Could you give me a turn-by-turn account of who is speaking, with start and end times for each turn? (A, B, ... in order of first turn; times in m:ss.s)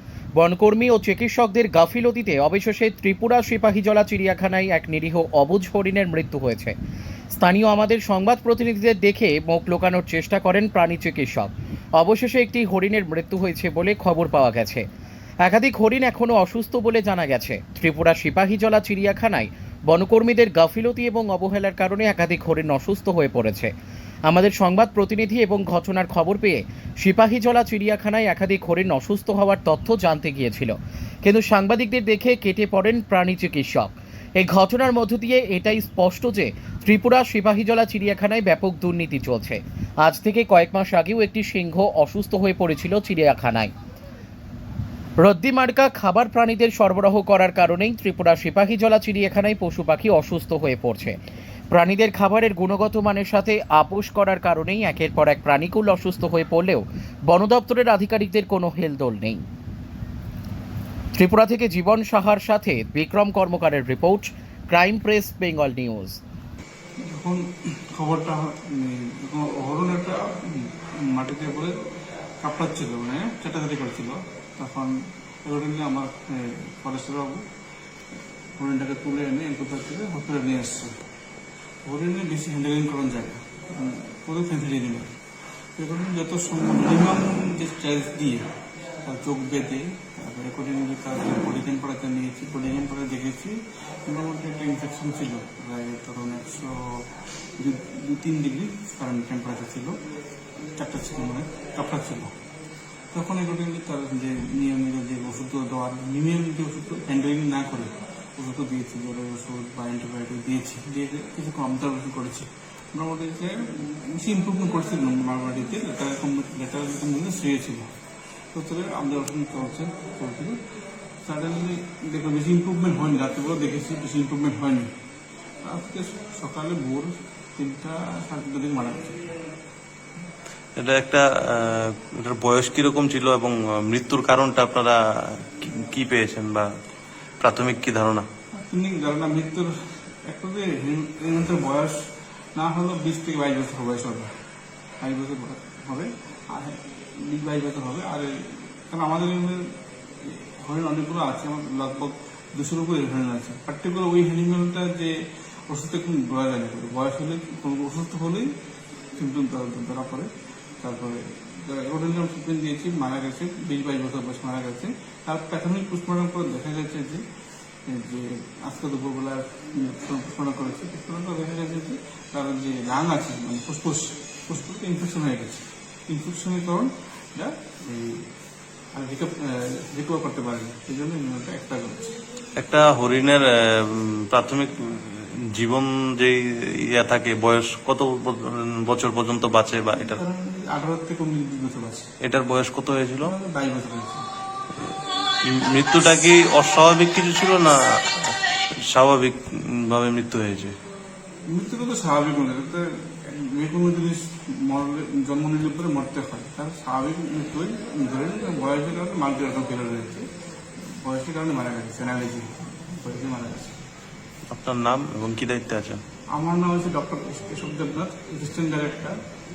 0:00.4-0:06.7 A
0:07.3-0:14.8 A
0:15.4-0:23.7 A
0:24.3-0:43.7 A
0:45.2-0:51.2 A
0:51.7-0:59.4 A
1:01.2-1:06.2 A
1:07.0-1:11.8 B
1:12.4-1:17.4 B
1:18.6-1:20.9 B
1:21.8-1:25.2 B
1:25.8-1:28.5 B
1:29.0-1:40.0 B
1:40.8-1:42.3 B
1:43.1-1:57.9 B
1:58.5-2:00.6 B
2:01.2-2:04.9 B
2:05.6-2:09.3 B
2:10.8-2:16.7 C
2:17.4-2:18.2 C
2:18.5-2:19.7 B
2:20.2-2:22.0 B
2:22.5-2:24.3 B
2:25.0-2:35.1 B
2:35.7-2:38.5 B
2:39.2-2:40.3 B
2:40.8-2:47.2 B
2:47.8-2:58.3 B
2:58.9-3:02.2 B
3:02.6-3:10.2 C
3:10.0-3:12.1 B
3:12.2-3:13.3 C
3:13.2-3:14.2 B
3:15.5-3:20.7 C
3:21.5-3:30.3 B
3:30.9-3:33.8 B
3:34.5-3:36.0 C
3:36.3-3:39.2 B